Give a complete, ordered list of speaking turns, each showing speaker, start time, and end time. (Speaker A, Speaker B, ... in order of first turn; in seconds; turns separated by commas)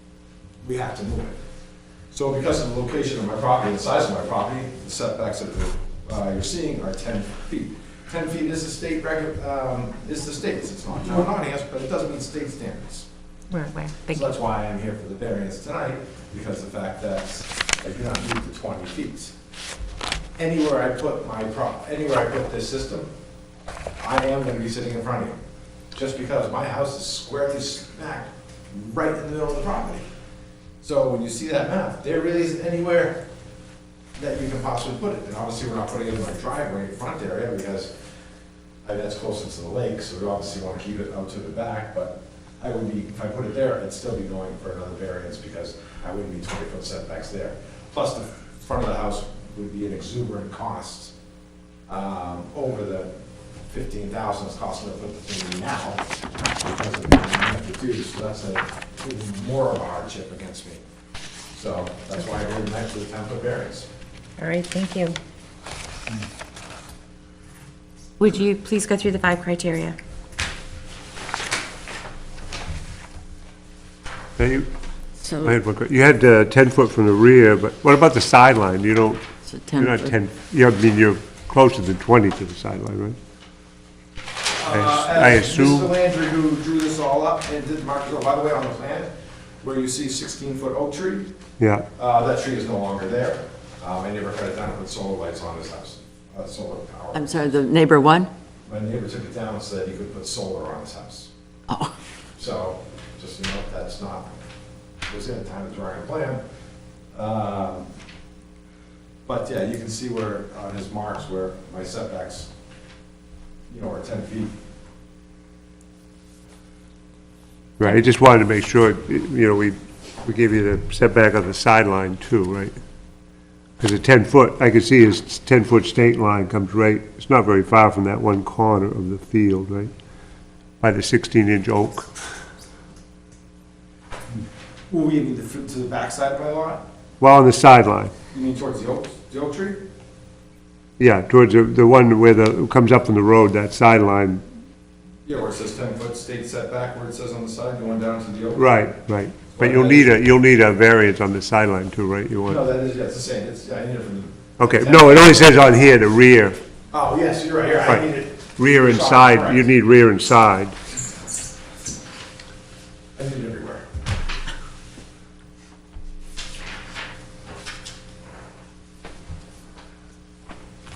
Speaker A: 0.6-1.4, Speaker A: 2.1-13.1, Speaker B: 13.5-14.3, Speaker A: 14.1-19.3, Speaker A: 20.4-23.1, Speaker A: 24.0-25.4, Speaker A: 25.9-30.1, Speaker A: 30.8-33.2, Speaker A: 34.2-37.9, Speaker A: 38.8-51.1, Speaker A: 51.9-53.1, Speaker A: 53.7-56.0, Speaker A: 56.6-60.8, Speaker A: 61.5-63.9, Speaker B: 64.4-65.2, Speaker B: 68.2-70.0, Speaker C: 74.4-74.7, Speaker D: 75.2-75.6, Speaker C: 75.4-79.2, Speaker D: 79.5-80.1, Speaker C: 79.7-83.2, Speaker A: 84.5-89.1, Speaker C: 84.7-85.9, Speaker A: 89.6-91.3, Speaker C: 91.6-91.9, Speaker A: 92.0-97.6, Speaker D: 97.1-98.3, Speaker A: 98.7-101.3, Speaker A: 102.4-104.3, Speaker A: 105.1-106.4, Speaker A: 107.1-107.9, Speaker A: 109.3-112.5, Speaker A: 113.7-114.5, Speaker C: 117.8-122.7, Speaker C: 123.8-129.9, Speaker C: 130.8-132.2, Speaker A: 134.9-136.8, Speaker C: 137.2-138.1, Speaker A: 138.3-139.8, Speaker C: 141.0-144.4, Speaker A: 145.3-148.9, Speaker C: 148.6-152.6, Speaker A: 149.5-150.2, Speaker A: 152.5-155.9, Speaker C: 154.6-156.6, Speaker A: 156.9-159.7, Speaker C: 158.6-160.8, Speaker A: 163.2-163.8